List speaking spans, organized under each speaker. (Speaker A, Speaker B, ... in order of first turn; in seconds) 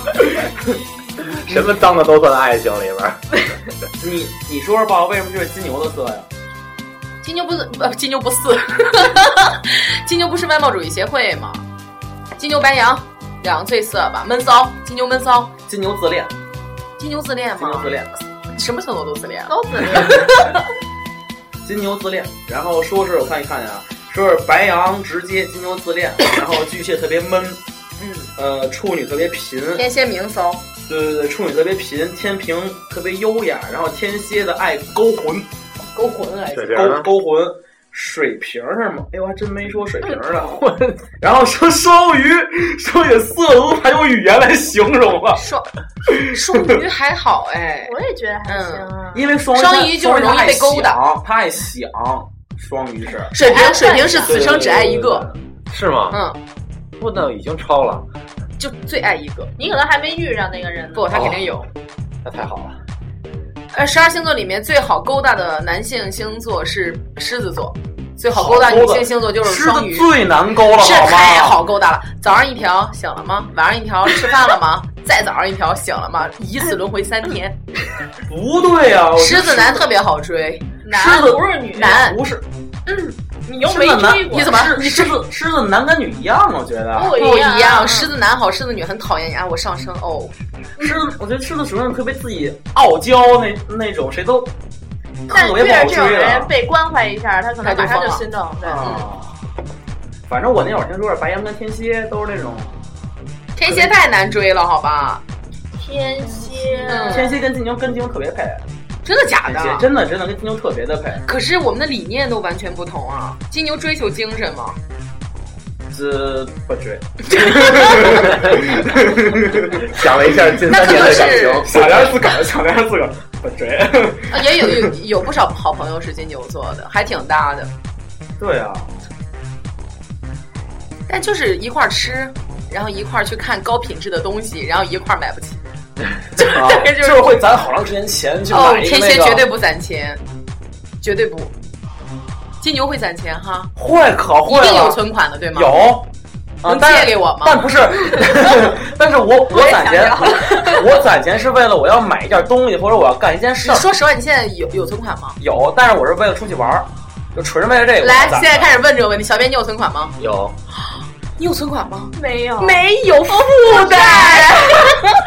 Speaker A: 1.4-3.2, 36.5-37.1, 40.3-41.0, 54.5-54.9, 55.7-56.2, 57.0-58.0, 61.1-61.4, 62.2-62.8, 118.2-118.6, 119.7-122.2, 160.2-160.5
Speaker B: 4.0-6.3, 15.7-16.3, 17.6-18.2, 21.6-27.6, 28.4-29.8, 30.9-35.5, 36.7-40.6, 41.2-45.4, 46.1-46.7, 49.1-53.3, 54.2-55.2, 68.3-71.6, 78.2-79.9, 80.9-82.4, 83.6-87.2, 90.8-94.5, 95.3-96.5, 98.6-99.3, 100.3-102.8, 106.9-108.6, 109.5-111.2, 115.9-124.9, 128.4-128.9, 136.4-139.5, 143.8-145.0, 145.5-146.1, 146.6-153.9, 155.4-158.8
Speaker C: 7.2-11.6, 12.4-15.5, 17.0-17.9, 18.5-20.6, 28.0-28.3, 29.7-30.6, 35.9-36.9, 45.4-47.9, 48.5-48.9, 49.5-51.0, 53.3-55.3, 56.1-56.4, 58.6-59.5, 60.9-61.7, 63.7-70.1, 70.7-77.5, 79.2-80.7, 81.7-82.2, 84.3-85.2, 87.0-90.3, 97.6-98.2, 98.8-99.0, 103.5-105.2, 106.9-107.3, 109.0-109.8, 111.2-114.8, 120.7-121.7, 124.3-127.7, 131.1-135.6, 136.3-137.4, 138.5-140.2, 141.0-141.5, 142.6-143.7, 144.4-146.0, 146.7-147.7, 153.6-155.4, 158.0-160.2, 161.4-165.1
Speaker D: 19.5-20.3, 47.8-49.3, 53.4-54.5, 59.6-61.1, 80.8-82.0, 82.9-84.6, 86.9-88.1, 95.3-99.0, 105.8-107.4, 149.5-150.9, 162.1-162.8, 163.3-165.0